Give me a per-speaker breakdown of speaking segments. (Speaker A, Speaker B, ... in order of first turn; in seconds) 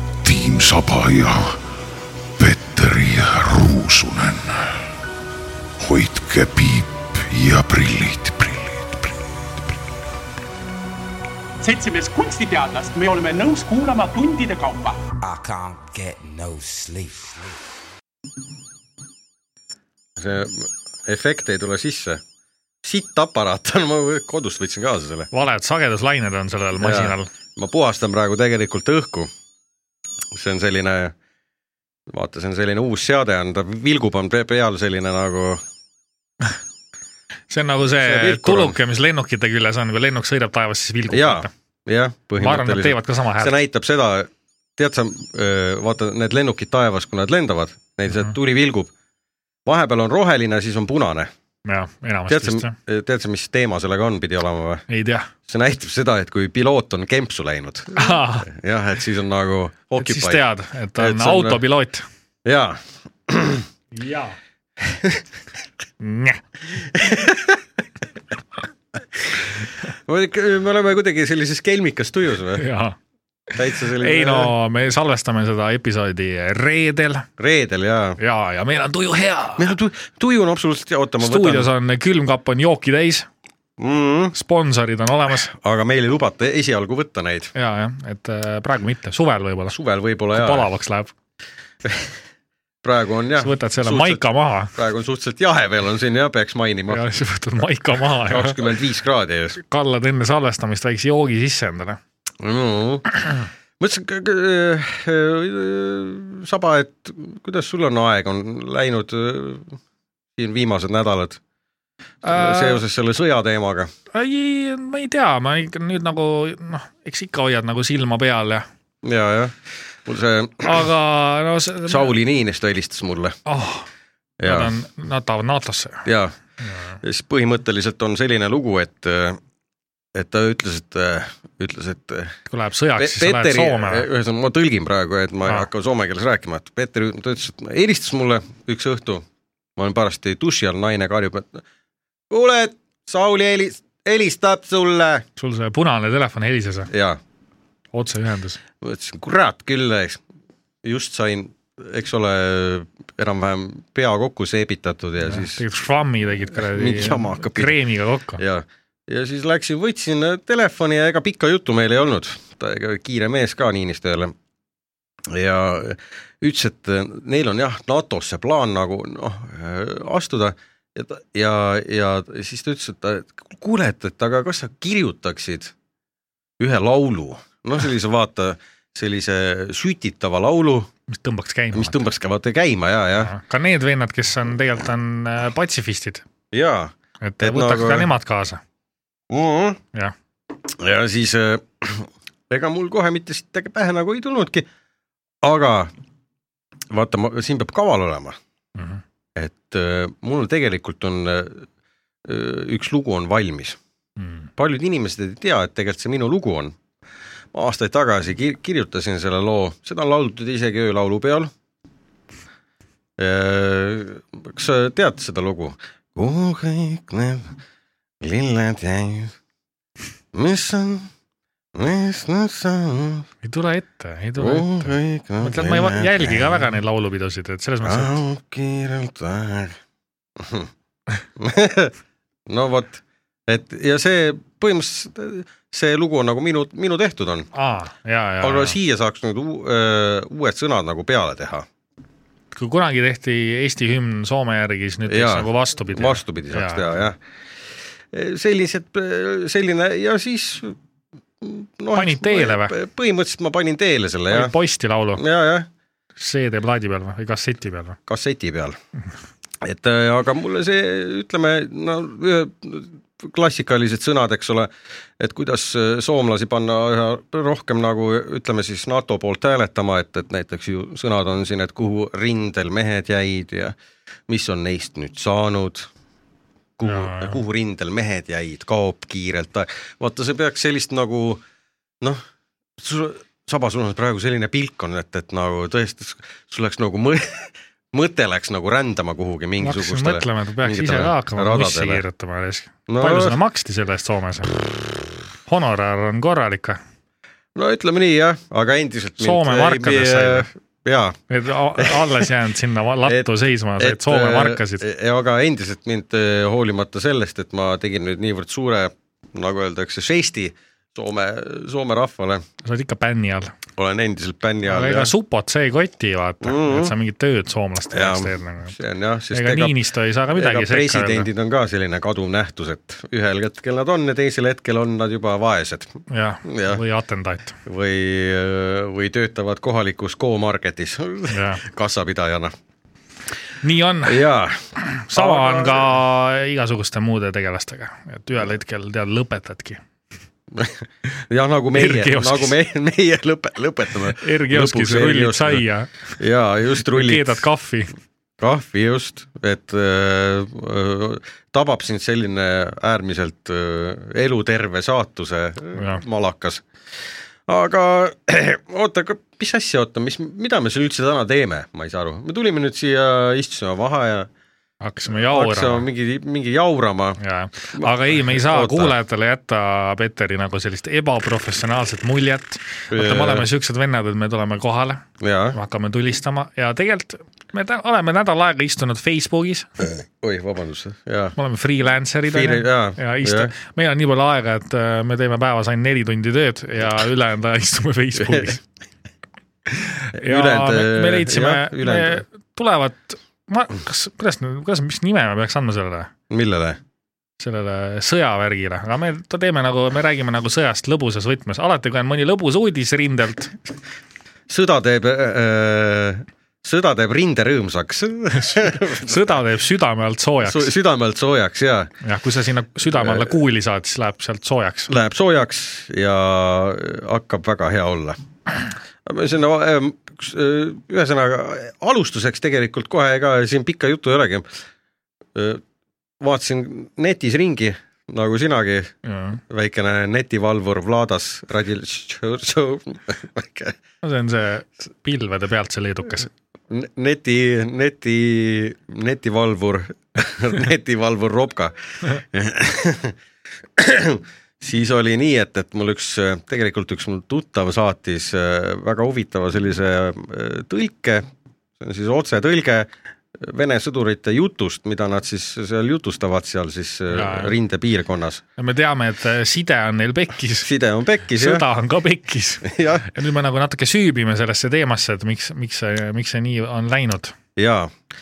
Speaker A: 0.2-1.6, 2.4-4.9, 5.8-9.2
Speaker B: 11.6-15.0
Speaker C: 15.2-17.6
Speaker D: 20.2-22.2, 22.8-25.3, 26.8-29.3, 30.3-31.1, 32.1-35.6, 38.0-38.8, 41.1-48.9, 49.7-51.3, 52.3-54.9, 55.5-60.4, 61.0-61.6, 62.5-63.7, 64.9-65.2, 66.9-67.6, 69.3-72.6, 73.5-74.5, 77.4-78.2, 79.6-81.7, 83.8-84.3, 85.5-87.5, 89.7-90.7, 91.8-92.1, 92.8-97.0, 98.3-99.6, 102.4-109.8, 110.4-111.4, 112.3-113.9, 119.0-120.8, 121.9-123.4, 124.4-124.7, 126.1-126.3, 127.0-129.4, 130.1-132.4, 133.0-139.3, 139.8-141.6, 142.3-145.2, 146.9-147.2, 148.8-150.2, 150.8-155.6, 156.6-157.8, 158.4-164.3, 165.3-175.7, 176.6-180.9, 181.7-183.3, 186.5-188.1, 189.3-189.8, 190.7-194.7, 195.4-195.9, 196.9-198.4, 199.4-201.7, 202.2-203.8, 204.6-206.8, 207.5-211.5, 213.2-217.5, 218.2-219.3, 220.3-221.1, 221.8-223.3, 224.4-226.6, 227.8-229.8, 230.4-230.7, 231.4-231.9, 232.5-237.5, 238.4-241.7, 245.1-247.2, 248.1-250.8, 251.4-254.6, 255.2-255.7, 258.1-258.8, 259.6-273.8, 274.3-275.9, 276.8-281.4, 282.8-292.0, 292.9-293.4, 297.6-301.2, 301.8-302.1, 303.8-312.4, 313.8-315.1, 316.4-316.9, 317.9-319.8, 320.3-326.8, 327.7-332.5, 334.1-334.6, 335.1-336.0, 340.5-345.6, 346.2-347.4, 348.4-356.6, 357.5-364.3, 365.1-367.2, 367.7-368.9, 372.9-373.5, 375.2-375.6, 379.8-381.4, 382.3-383.5, 388.2-388.5, 390.1-392.2, 396.3-396.8, 404.5-409.2, 410.4-411.9, 413.0-413.3, 414.9-418.2, 419.1-424.5, 425.4-425.6, 426.2-428.9, 429.5-433.8, 436.7-443.2, 443.8-451.3, 451.8-458.4, 460.6-461.6, 462.6-463.1, 467.6-467.9
Speaker E: 25.3-27.3, 37.5-41.5, 42.4-43.5, 51.7-52.7, 54.9-55.3, 58.0-58.5, 60.0-62.0, 63.9-64.4, 66.0-66.4, 72.6-73.0, 73.8-77.3, 78.2-79.8, 81.2-83.3, 84.3-85.5, 87.5-89.8, 90.3-91.1, 93.4-94.7, 96.9-98.6, 99.6-102.0, 112.2-112.8, 114.1-118.7, 120.6-122.1, 123.5-123.9, 124.4-126.1, 126.6-127.0, 132.5-134.1, 145.4-146.9, 147.9-148.6, 155.2-158.4, 181.1-181.9, 183.2-186.2, 187.2-188.6, 198.8-199.0, 204.2-204.5, 223.4-228.2, 237.5-238.8, 242.5-246.8, 251.9-252.8, 254.3-255.2, 256.2-258.0, 276.8-277.4, 289.6-294.6, 295.5-296.8, 299.2-300.5, 301.3-304.8, 312.6-313.5, 314.7-318.8, 319.3-321.3, 326.1-327.6, 331.3-331.6, 333.6-334.2, 334.8-339.8, 341.7-342.6, 344.1-345.9, 346.9-347.9, 355.8-356.0, 364.8-365.9, 367.2-379.7, 381.4-388.6, 389.7-396.1, 397.4-403.5, 408.4-410.7, 412.0-414.9, 429.1-429.4, 434.0-436.3, 457.1-457.6, 458.6-460.7, 461.3-467.4